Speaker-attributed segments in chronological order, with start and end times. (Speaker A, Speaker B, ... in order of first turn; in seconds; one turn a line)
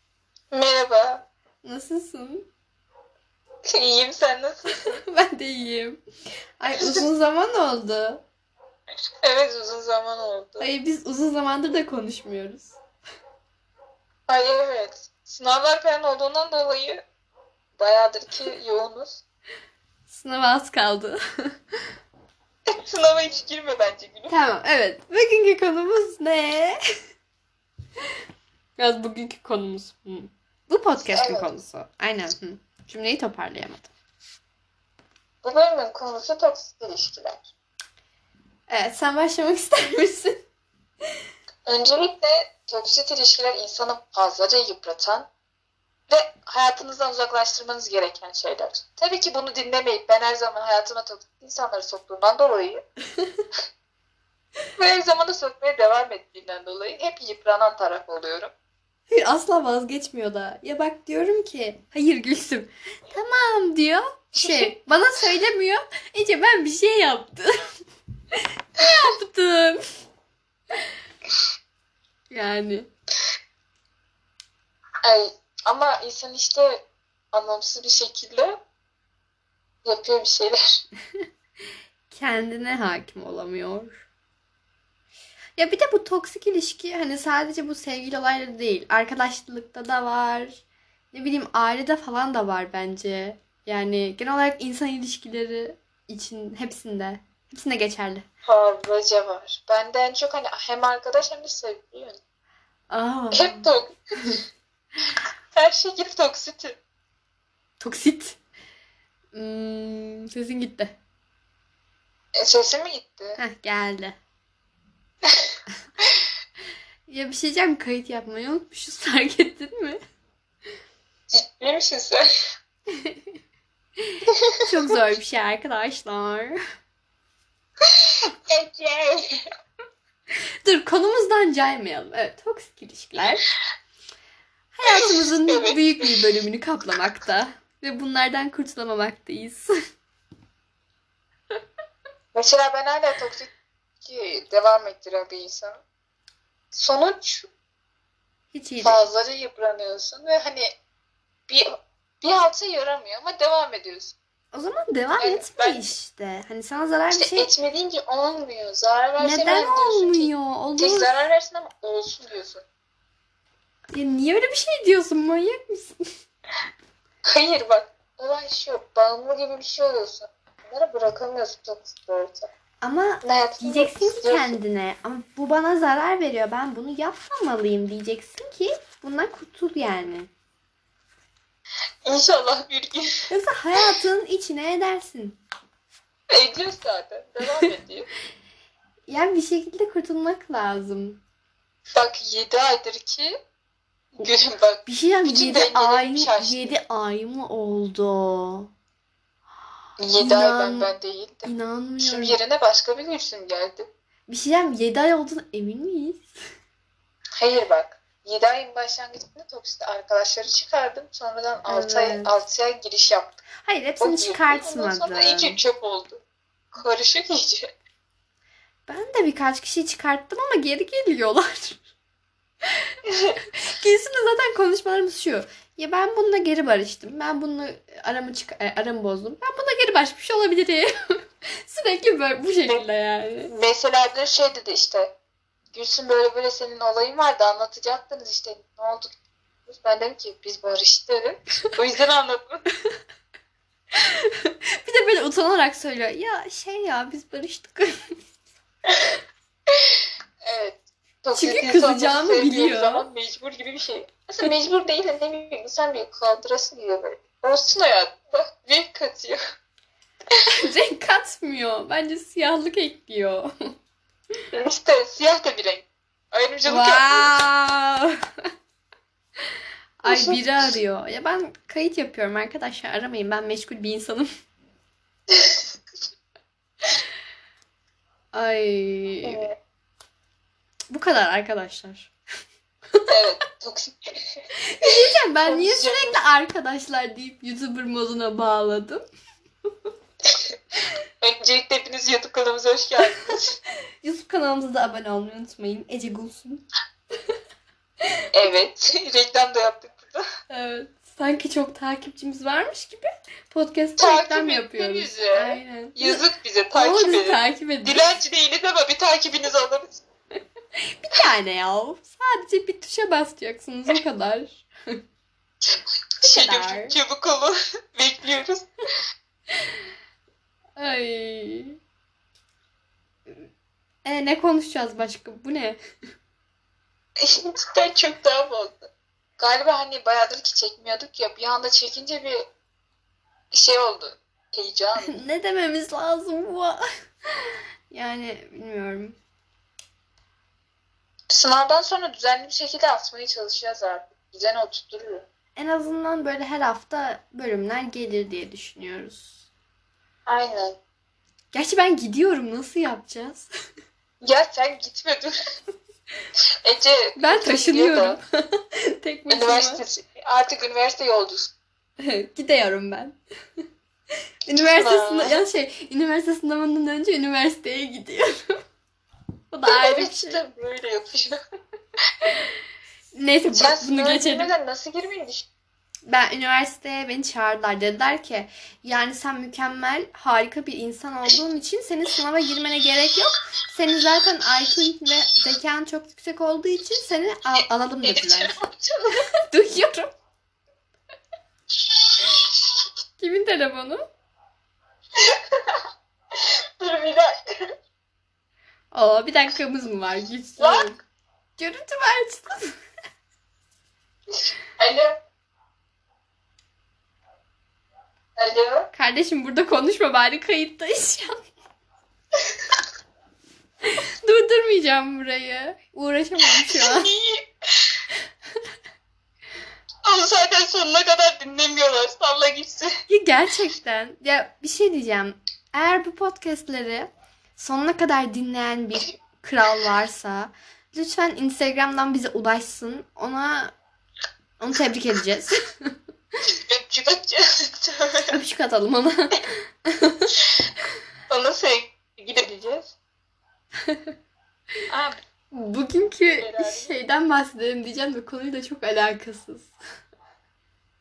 Speaker A: 0.5-1.2
Speaker B: 1.6-2.5
Speaker A: 3.7-5.0
Speaker B: 5.0-6.0
Speaker B: 6.6-8.2
Speaker A: 6.8-7.1
Speaker A: 9.2-10.7
Speaker B: 10.6-12.8
Speaker A: 14.3-17.0
Speaker A: 17.8-19.2
Speaker B: 20.1-21.2
Speaker A: 22.7-24.3
Speaker B: 24.3-26.8
Speaker B: 28.8-33.9
Speaker A: 31.0-31.5
Speaker A: 35.4-37.5
Speaker B: 38.7-40.4
Speaker A: 41.7-45.3
Speaker A: 46.1-52.8
Speaker A: 54.8-58.5
Speaker B: 59.1-67.5
Speaker A: 64.4-64.7
Speaker B: 68.8-69.8
Speaker B: 72.3-72.9
Speaker A: 75.0-78.6
Speaker A: 79.8-80.8
Speaker B: 82.1-84.0
Speaker B: 85.6-98.2
Speaker A: 98.5-102.2
Speaker B: 102.9-103.7
Speaker A: 103.3-104.0
Speaker A: 105.5-106.8
Speaker B: 107.8-108.4
Speaker B: 109.3-111.0
Speaker A: 112.4-113.4
Speaker B: 113.4-114.2
Speaker A: 115.2-115.5
Speaker B: 117.1-120.0
Speaker A: 121.3-122.3
Speaker B: 124.1-126.5
Speaker A: 127.9-129.2
Speaker B: 130.6-133.4
Speaker B: 134.7-139.7
Speaker A: 134.9-136.1
Speaker A: 142.3-143.5
Speaker A: 144.0-145.8
Speaker A: 146.7-147.5
Speaker B: 148.5-149.0
Speaker A: 148.8-150.7
Speaker A: 152.2-154.1
Speaker B: 154.5-157.5
Speaker A: 155.2-155.9
Speaker A: 157.1-162.6
Speaker B: 159.2-161.1
Speaker B: 163.9-166.0
Speaker A: 167.2-172.5
Speaker B: 172.8-180.3
Speaker A: 173.2-174.6
Speaker A: 182.0-183.1
Speaker B: 183.3-185.4
Speaker A: 186.3-188.1
Speaker B: 189.1-191.2
Speaker A: 191.9-193.3
Speaker A: 194.2-196.7
Speaker B: 194.8-198.7
Speaker A: 200.0-203.9
Speaker B: 200.1-200.9
Speaker B: 201.4-202.4
Speaker B: 204.3-206.3
Speaker A: 207.4-213.4
Speaker B: 211.7-212.3
Speaker B: 213.6-215.6
Speaker A: 214.0-216.2
Speaker A: 216.7-217.7
Speaker B: 218.9-221.8
Speaker B: 223.6-230.9
Speaker B: 231.6-233.5
Speaker A: 233.5-235.1
Speaker A: 235.7-239.1
Speaker A: 239.7-242.6
Speaker B: 244.1-247.9
Speaker A: 249.7-259.4
Speaker B: 251.3-253.1
Speaker B: 260.5-263.5
Speaker A: 264.5-267.3
Speaker B: 266.7-268.1
Speaker B: 270.0-274.3
Speaker A: 270.1-270.4
Speaker A: 275.3-275.7
Speaker B: 278.3-279.4
Speaker A: 279.2-279.6
Speaker B: 280.9-282.1
Speaker A: 283.1-286.2
Speaker B: 284.6-289.0
Speaker A: 291.2-293.6
Speaker B: 294.0-296.6
Speaker A: 298.3-300.2
Speaker B: 300.5-306.2
Speaker A: 304.0-310.0
Speaker B: 306.7-308.1
Speaker B: 311.0-314.7
Speaker A: 316.2-318.7
Speaker B: 316.2-317.0
Speaker B: 320.8-321.8
Speaker B: 324.1-325.8
Speaker A: 327.2-332.4
Speaker A: 333.5-335.1
Speaker B: 335.0-336.8
Speaker B: 337.9-339.2
Speaker A: 341.3-345.2
Speaker B: 345.6-349.3
Speaker A: 350.2-350.8
Speaker B: 351.5-353.5
Speaker A: 354.2-355.3
Speaker A: 356.6-358.2
Speaker B: 357.2-359.8
Speaker A: 359.3-361.5
Speaker B: 362.0-363.2
Speaker B: 364.4-368.5
Speaker A: 364.6-365.4
Speaker B: 369.5-370.4
Speaker A: 369.7-371.4
Speaker B: 373.1-374.5
Speaker A: 373.5-375.5
Speaker B: 376.1-388.6
Speaker A: 388.0-389.2
Speaker B: 389.5-390.1
Speaker B: 393.2-394.0
Speaker A: 395.2-395.8
Speaker A: 396.4-397.4
Speaker B: 398.9-401.0
Speaker A: 400.6-400.9
Speaker B: 401.6-402.8
Speaker A: 404.8-405.2
Speaker A: 408.4-408.9
Speaker B: 408.9-411.4
Speaker B: 413.9-417.1
Speaker A: 416.4-418.0
Speaker A: 420.1-422.9
Speaker B: 423.1-433.7
Speaker B: 434.6-435.9
Speaker A: 436.5-438.4
Speaker B: 438.3-440.3
Speaker A: 441.3-442.9
Speaker A: 444.9-445.2
Speaker B: 445.5-449.7
Speaker A: 446.1-446.9